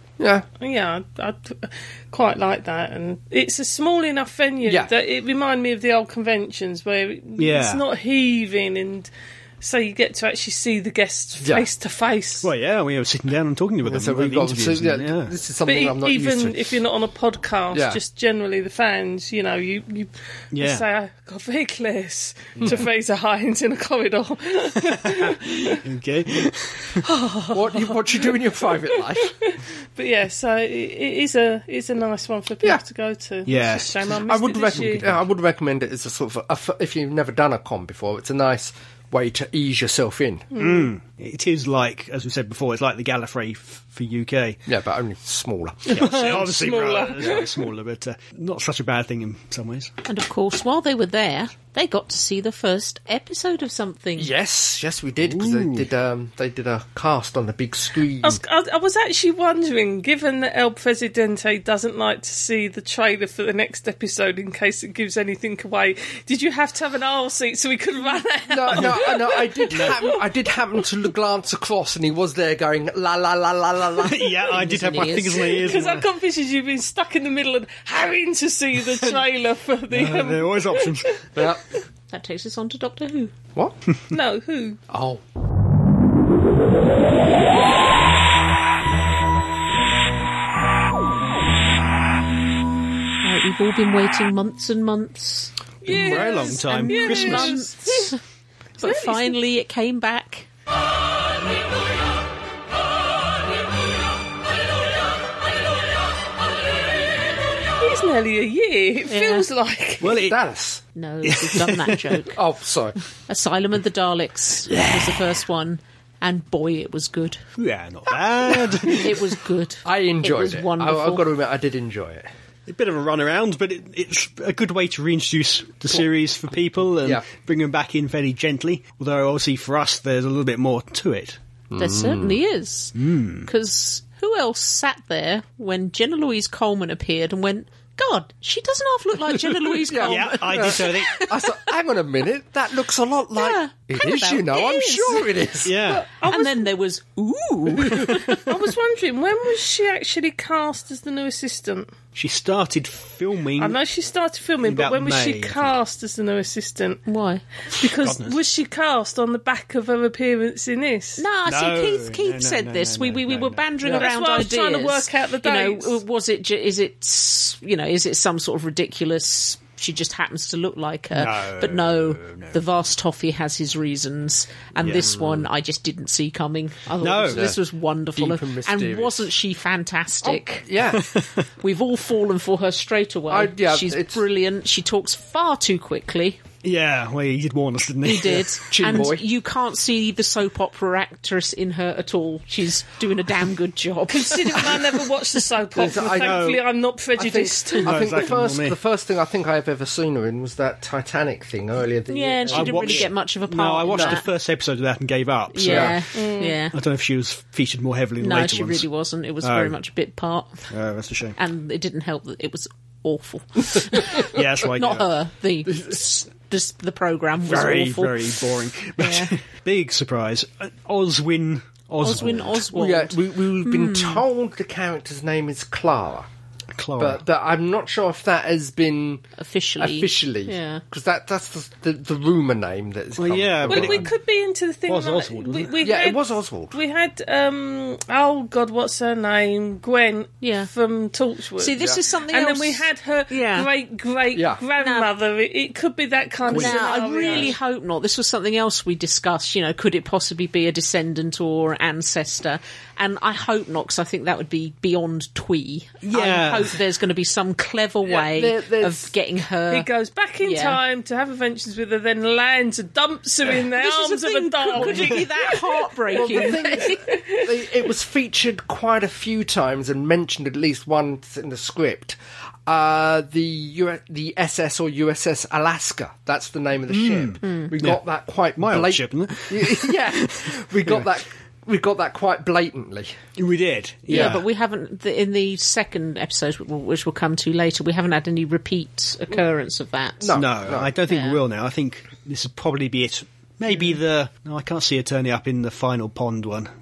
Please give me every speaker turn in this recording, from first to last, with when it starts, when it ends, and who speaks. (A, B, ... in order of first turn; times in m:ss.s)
0:00.2-0:00.5 A
0:00.6-0:12.5 B
0:04.6-0:04.9 A
0:07.4-0:07.8 C
0:11.4-0:11.7 A
0:12.4-0:15.3 C
0:13.8-0:16.8 A
0:15.7-0:25.8 B
0:17.7-0:18.0 A
0:20.5-0:20.8 C
0:22.6-0:22.8 A
0:24.8-0:27.0 C
0:27.0-0:28.4 B
0:27.5-0:29.3 A
0:29.2-0:35.1 B
0:33.5-0:34.1 C
0:34.2-0:40.5 A
0:34.7-0:35.2 C
0:40.5-0:40.9 B
0:40.6-0:44.6 C
0:44.7-0:46.3 A
0:45.9-0:49.9 C
0:45.9-0:47.6 B
0:50.1-0:54.3 D
0:54.2-0:58.4 A
0:55.2-0:55.9 C
0:58.2-1:10.1 B
1:08.5-1:14.6 A
1:09.7-1:10.0 C
1:14.0-1:16.1 C
1:14.5-1:15.7 D
1:15.4-1:21.2 B
1:18.9-1:19.2 C
1:19.9-1:21.2 C
1:21.4-1:21.6 A
1:22.1-1:23.3 D
1:24.1-1:24.8 B
1:24.9-1:25.2 A
1:33.2-1:38.2 D
1:35.8-1:38.1 B
1:35.8-1:37.6 C
1:38.8-1:40.5 D
1:38.8-1:39.4 B
1:47.8-1:50.2 B
1:49.1-1:49.5 D
1:50.0-1:50.4 C
1:50.1-1:50.8 A
1:51.0-1:52.4 D
1:51.2-1:52.2 C
1:52.3-1:53.0 A
1:53.3-1:57.4 D
1:54.7-1:55.2 C
1:57.6-1:59.3 C
1:58.9-2:01.2 D
1:59.8-2:02.3 A
2:02.7-2:11.4 C
2:11.7-2:12.4 A
2:11.8-2:21.4 D
2:13.0-2:13.5 C
2:19.4-2:21.2 C
2:19.9-2:25.8 A
2:23.4-2:25.3 D
2:25.6-2:26.1 C
2:25.9-2:26.7 B
2:26.2-2:28.4 D
2:27.8-2:28.5 C
2:28.4-2:31.9 B
2:32.2-2:33.8 C
2:33.6-2:37.0 B
2:34.6-2:35.8 C
2:37.1-2:37.4 D
2:37.8-2:41.2 B
2:37.8-2:38.4 C
2:41.2-3:00.7 D
2:41.4-2:44.0 C
2:43.9-2:46.0 B
2:51.1-2:52.6 C
2:54.8-2:55.2 C
2:55.0-2:55.4 A
2:57.0-2:57.6 C
2:57.3-2:57.6 A
2:58.2-2:59.3 A
3:00.2-3:01.0 A
3:00.9-3:01.5 C
3:01.6-3:06.4 D
3:03.3-3:04.2 A
3:06.6-3:08.6 C
3:08.0-3:14.8 D
3:08.7-3:09.2 A
3:14.1-3:18.0 B
3:15.8-3:16.6 A
3:16.0-3:16.6 C
3:17.2-3:23.1 A
3:17.8-3:18.8 C
3:22.1-3:24.3 D
3:22.5-3:26.1 C
3:25.5-3:26.8 D
3:25.6-3:26.0 A
3:26.2-3:26.5 B
3:26.7-3:28.9 C
3:28.2-3:30.7 D
3:29.4-3:29.8 C
3:30.7-3:31.4 C
3:31.4-3:39.3 D
3:34.3-3:35.1 C
3:37.4-3:42.7 C
3:42.0-3:44.2 D
3:42.5-3:46.3 A
3:46.7-3:47.2 C
3:47.0-3:49.2 A
3:49.4-3:50.8 D
3:49.8-3:54.1 A
3:53.2-3:54.1 C
3:53.7-4:01.8 B
3:54.9-3:56.0 C
3:55.8-3:56.8 A
4:00.4-4:00.7 D
4:01.6-4:03.7 D
4:02.3-4:07.6 B
4:04.3-4:04.6 A
4:04.8-4:05.1 D
4:06.5-4:19.9 D
4:06.5-4:07.5 C
4:16.0-4:16.8 C
4:18.3-4:19.1 A
4:19.7-4:27.4 B
4:20.4-4:20.8 D
4:23.7-4:27.0 D
4:26.1-4:43.2 A
4:36.9-4:38.0 C
4:37.4-4:37.7 D
4:38.6-4:41.1 C
4:43.4-4:44.4 C
4:44.1-4:44.4 A
4:44.1-4:50.4 D
4:50.2-4:50.9 A
4:50.3-4:56.7 C
4:51.1-4:51.4 D
4:53.7-4:54.0 D